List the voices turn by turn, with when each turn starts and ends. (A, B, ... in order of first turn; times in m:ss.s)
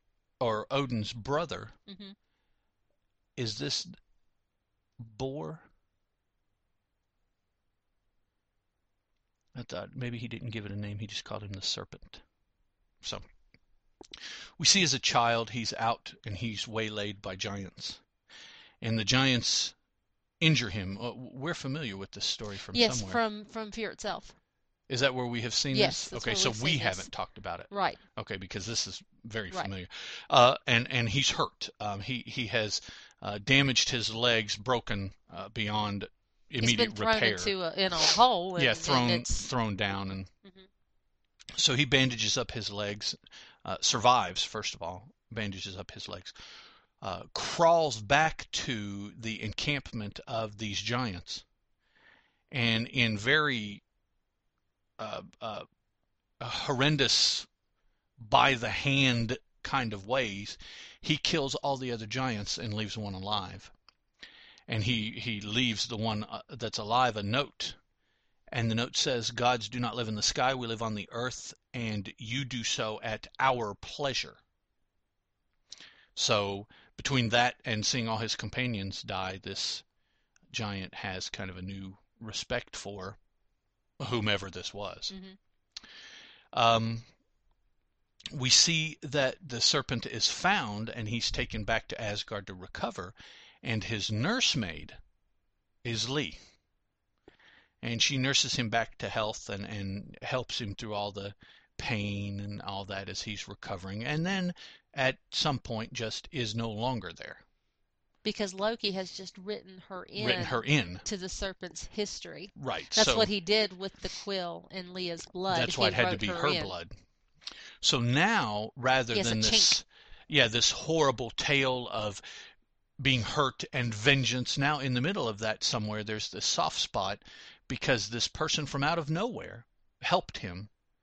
0:00.4-0:01.7 A
0:01.9-0:02.1 B
0:03.4-0:03.9 A
0:05.0-0:05.6 A
0:09.5-0:12.2 A
0:14.2-0:18.0 A
0:18.8-0:19.7 A
0:20.4-0:23.2 A
0:22.7-0:24.3 B
0:24.9-0:40.3 A
0:25.7-0:27.0 B
0:27.7-0:28.0 B
0:36.6-0:39.4 B
0:41.6-0:46.3 A
0:47.0-0:51.4 A
0:52.5-0:53.8 A
0:55.0-0:55.6 A
0:56.4-0:57.5 A
0:58.2-1:03.7 A
1:04.7-1:07.8 A
1:08.5-1:14.4 A
1:16.2-1:19.8 A
1:20.5-1:23.2 A
1:24.0-1:25.1 A
1:25.1-1:25.4 B
1:26.5-1:27.1 A
1:28.3-1:35.0 A
1:35.8-1:36.4 A
1:37.8-1:47.4 A
1:48.2-1:56.7 B
1:50.2-1:51.0 A
1:52.6-1:53.3 A
1:55.5-1:56.9 A
1:57.8-2:02.3 A
1:59.1-1:59.8 B
2:03.0-2:10.7 A